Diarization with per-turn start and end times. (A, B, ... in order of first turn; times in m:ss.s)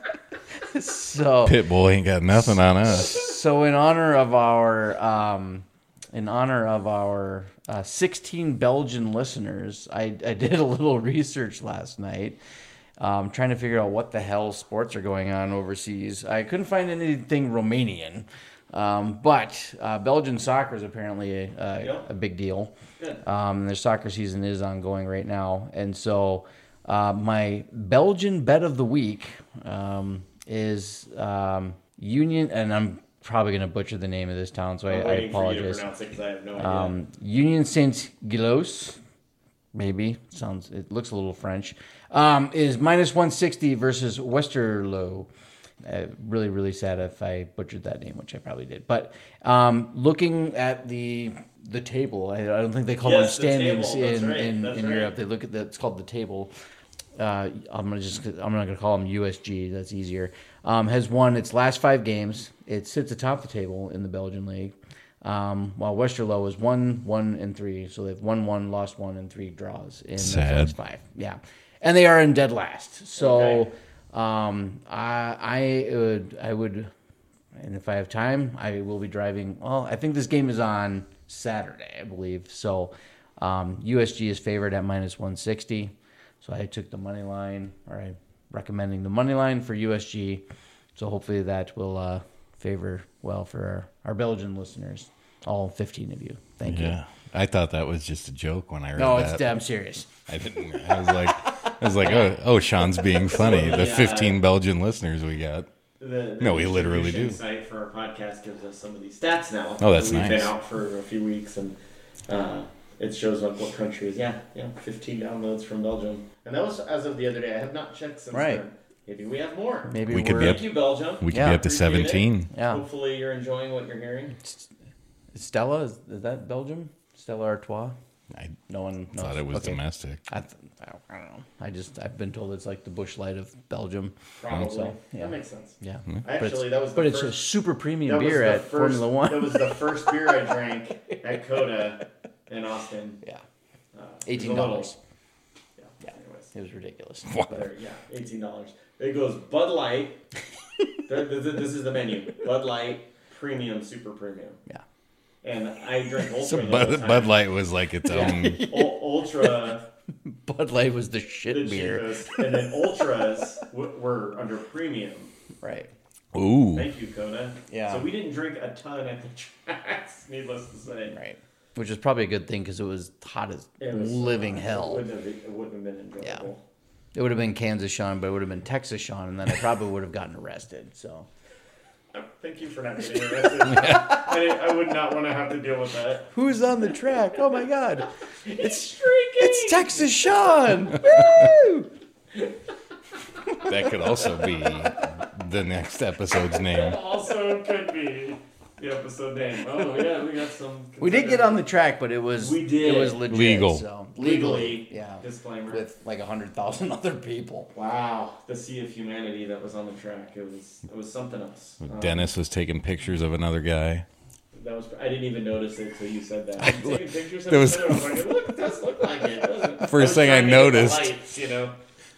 0:00.6-0:01.6 A
0:01.4-0:03.2 B
0:02.3-0:12.4 A
0:13.0-0:35.9 A
0:21.8-0:22.0 C
0:34.9-0:37.0 C
0:36.6-0:39.0 A
0:39.7-0:45.3 A
0:45.8-0:56.5 A
0:53.0-0:55.1 C
0:57.2-1:16.9 A
1:10.2-1:10.7 B
1:13.2-1:13.7 C
1:17.6-1:30.4 A
1:31.0-1:37.0 A
1:36.6-1:39.6 B
1:39.0-1:42.1 A
1:40.3-1:45.7 B
1:42.0-1:42.4 C
1:43.2-1:44.4 C
1:46.0-1:51.8 C
1:46.4-1:47.4 B
1:49.8-1:50.5 B
1:52.3-2:04.4 C
1:58.3-1:58.6 A
1:59.9-2:00.6 A
2:00.1-2:02.5 B
2:01.3-2:01.6 A
2:02.5-2:02.8 A
2:05.3-2:08.0 A
2:08.3-2:08.6 B
2:08.7-2:20.5 A
2:09.1-2:10.2 B
2:14.4-2:17.4 C
2:18.0-2:23.2 C
2:21.1-2:21.4 A
2:23.9-2:24.9 C
2:24.2-2:25.0 A
2:25.8-2:26.5 C
2:26.5-2:27.6 A
2:27.5-2:30.2 C
2:31.0-2:34.6 C
2:35.4-2:37.4 C
2:36.4-2:38.6 B
2:38.0-2:39.6 A
2:38.1-2:39.8 C
2:40.2-2:42.7 A
2:41.5-2:45.3 C
2:45.6-2:45.9 A
2:46.3-2:46.9 B
2:46.7-2:51.2 C
2:47.7-2:48.1 A
2:51.1-2:55.0 A
2:53.8-2:56.6 C
2:56.2-2:56.5 A
2:57.1-3:01.3 A
3:02.1-3:06.3 C
3:06.3-3:11.9 A
3:08.4-3:10.1 C
3:13.6-3:17.0 B
3:16.6-3:21.6 C
3:21.0-3:27.7 A
3:22.4-3:23.3 C
3:23.2-3:23.8 B
3:24.2-3:25.8 C
3:27.7-3:32.3 C
3:31.8-3:34.0 B
3:34.5-3:41.7 C
3:36.6-3:38.4 B
3:39.8-3:41.2 B